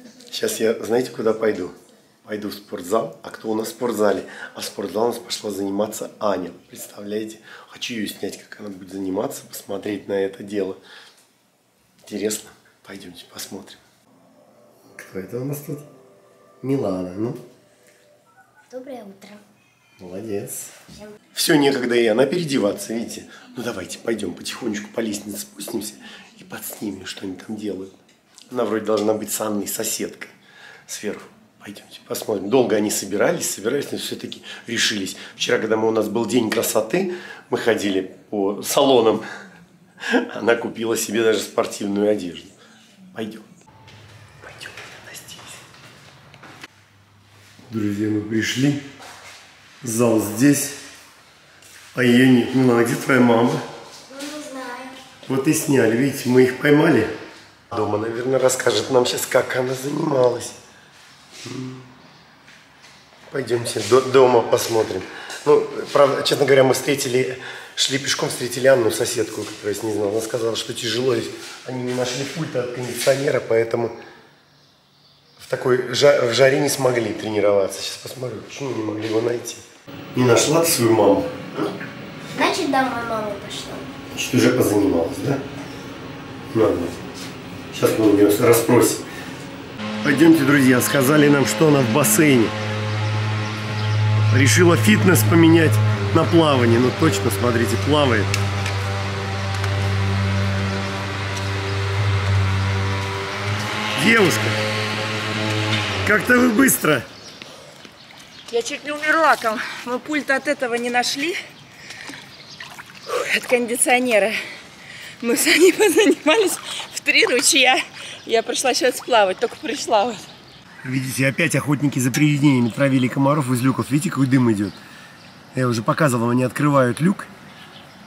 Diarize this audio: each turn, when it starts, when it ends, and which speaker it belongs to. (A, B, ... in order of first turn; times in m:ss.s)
0:00.3-0:10.8 A
0:12.0-0:13.8 A
0:14.9-0:15.9 A
0:16.6-0:17.4 A
0:18.7-0:19.4 B
0:20.0-0:20.7 A
0:21.3-0:28.0 A
0:28.5-0:30.3 A
0:30.9-0:39.2 A
0:40.0-0:42.5 A
0:43.1-0:43.5 A
0:44.4-0:45.6 A
0:47.7-0:48.8 A
0:49.8-0:50.8 A
0:51.9-0:53.6 A
0:54.1-0:54.9 B
0:55.3-0:57.1 A
0:57.7-1:00.6 A
1:01.4-1:01.9 A
1:03.3-1:14.0 A
1:15.4-1:21.7 A
1:22.4-1:23.9 B
1:24.1-1:25.4 A
1:26.5-1:27.0 A
1:27.7-1:29.0 A
1:30.0-1:32.6 A
1:34.3-1:38.3 A
1:44.0-1:44.6 A
1:46.0-1:47.1 A
1:48.5-1:51.4 C
1:53.1-1:54.4 C
1:55.2-2:00.3 C
2:00.8-2:04.8 A
2:05.5-2:07.3 A